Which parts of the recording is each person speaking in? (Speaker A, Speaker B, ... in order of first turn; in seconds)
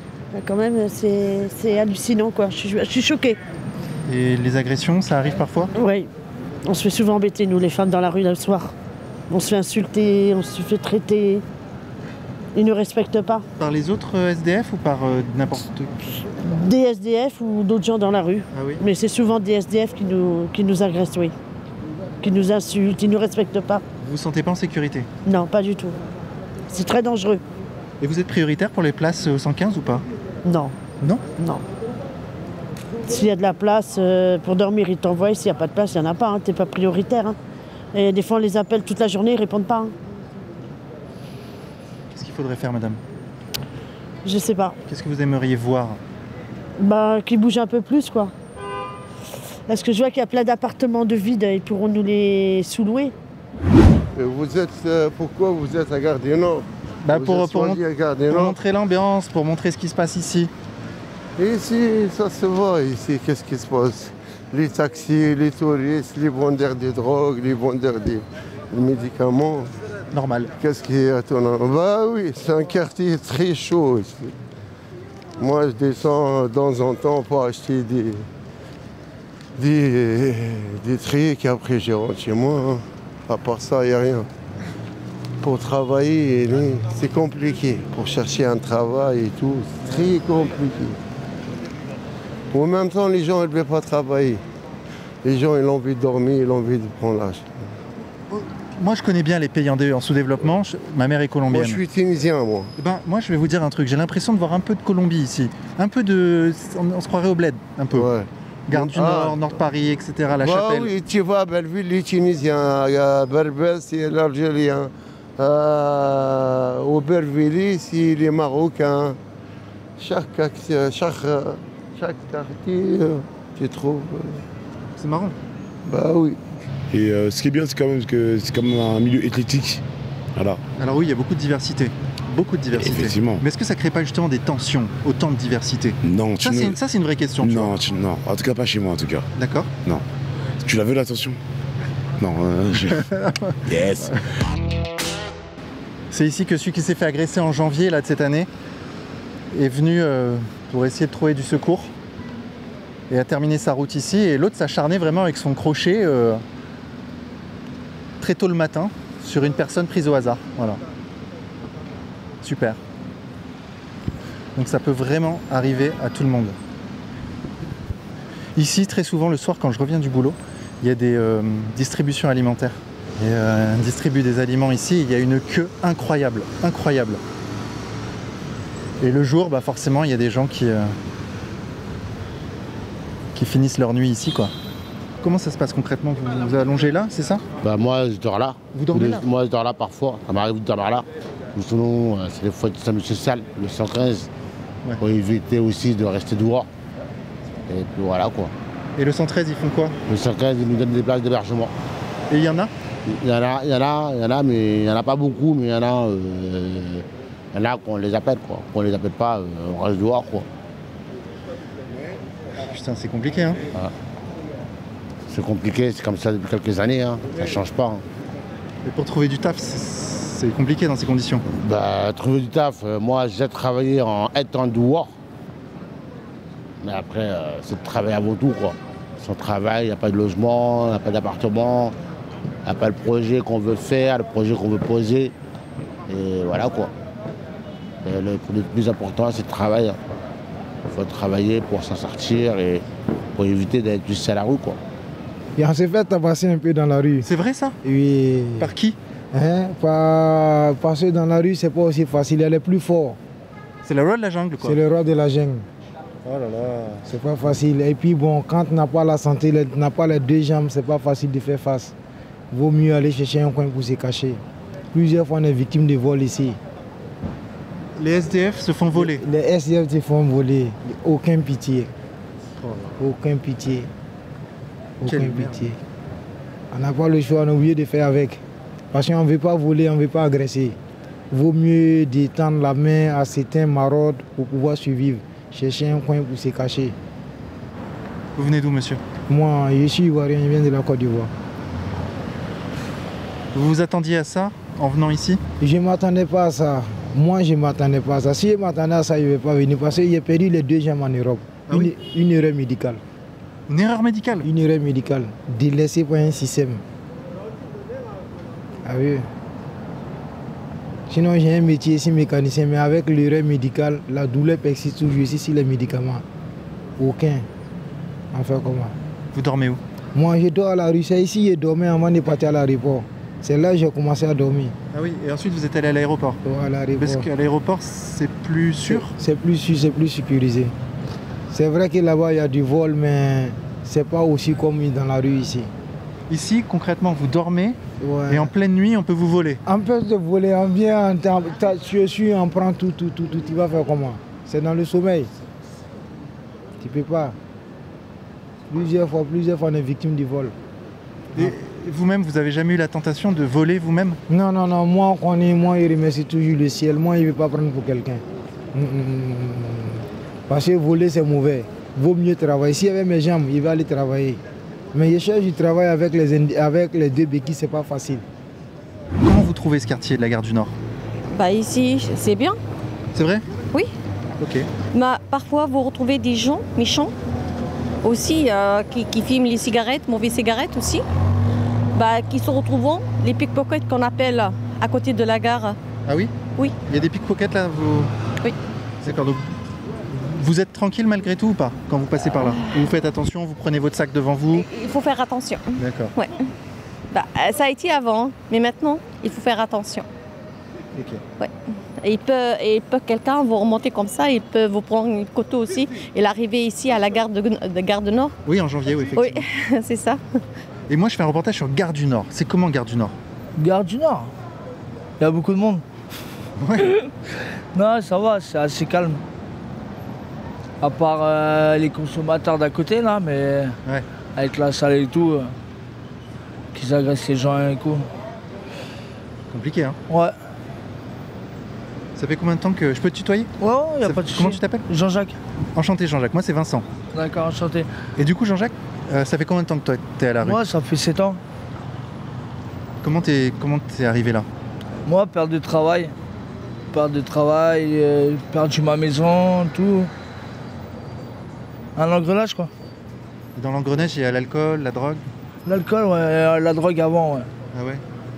Speaker A: 0.3-3.4, 5.8-6.1, 6.6-8.7, 9.3-11.4, 12.5-13.4, 16.2-21.3, 22.2-23.8, 25.2-26.0, 26.7-27.4, 30.4-30.7, 31.4-31.6, 33.0-37.4, 37.9-39.9, 44.2-44.8, 46.8-48.3, 49.7-53.1
Speaker B: 4.0-5.7, 13.6-16.1, 18.5-18.8, 24.0-25.1, 28.0-30.0, 42.1-43.0, 44.9-46.0, 57.0-60.5, 70.1-70.5, 98.3-101.8, 102.8-108.1, 108.7-110.9, 125.0-125.4, 130.8-137.7, 139.4-139.7, 142.9-144.2, 146.1-148.5, 149.5-151.9, 153.1-156.4, 158.2-160.8, 162.4-162.8, 164.6-166.6, 168.6-177.2, 179.0-180.9, 183.3-184.5, 185.2-187.4, 188.7-189.2, 199.0-199.9, 202.3-202.7, 212.6-213.6, 218.8-221.4, 247.2-247.8, 248.6-249.0, 253.8-254.8, 256.2-257.0, 268.0-269.2, 272.6-273.0, 275.0-275.7, 288.4-289.0, 293.5-295.4, 303.7-304.5, 319.3-319.8, 324.9-326.4, 327.0-329.1, 336.3-337.8, 338.3-339.6, 351.3-354.2, 369.2-370.7, 373.1-373.4, 374.4-374.7, 386.1-386.3, 386.9-388.1, 389.0-389.5, 390.1-394.6, 395.8-396.1, 400.9-401.2, 408.4-409.4, 410.9-413.1, 416.6-416.9, 429.5-430.0, 432.1-433.5, 434.0-434.8, 435.8-436.8, 438.2-440.6, 443.0-444.4, 453.6-455.2, 457.7-458.0
Speaker C: 54.1-58.5, 61.4-69.7, 70.6-74.3, 75.4-78.2, 79.5-84.3, 85.4-91.0, 92.5-94.4, 95.2-97.7, 101.5-102.7, 107.9-109.4, 110.3-119.2, 120.0-124.4, 125.8-126.4
Speaker D: 126.9-129.8, 130.3-130.6, 132.7-133.4, 136.0-136.8, 137.4-139.3, 140.6-141.4, 142.2-143.1, 143.6-144.2
Speaker E: 187.6-194.3, 195.0-196.7, 197.7-198.5, 200.1-201.7, 203.1-210.5, 215.3-218.0, 221.5-225.1, 226.8-231.9, 232.6-235.3, 236.1-236.9, 238.0-240.0, 240.8-242.8, 243.3-244.8
Speaker F: 245.6-247.3, 247.8-248.7, 249.3-253.2, 254.6-255.7, 257.1-261.9, 262.5-264.4, 264.9-266.6, 268.9-271.9, 273.0-273.9, 275.0-275.8, 276.7-280.8, 281.3-286.9, 289.3-291.3, 295.6-303.0, 304.4-306.8, 308.8-309.3, 311.1-316.2, 317.0-317.5, 318.3-318.9, 320.1-324.8, 326.4-327.3, 328.9-330.7, 331.5-335.7, 338.0-338.5, 339.6-345.3, 346.8-347.4, 348.7-350.5, 354.3-364.4, 364.9-368.2
Speaker G: 371.3-372.6, 374.9-377.1, 378.0-381.0, 381.9-385.8, 394.5-396.5, 397.1-400.1, 401.4-408.3, 409.1-410.4
Speaker H: 413.6-414.3, 415.2-415.8, 416.8-417.1, 417.7-419.2, 420.8-423.8, 424.4-425.5, 426.7-428.1, 430.1-430.3, 433.6-435.4, 437.1-437.9, 440.4-441.4, 445.1-446.1, 446.9-450.1, 451.9-452.7, 455.6-457.5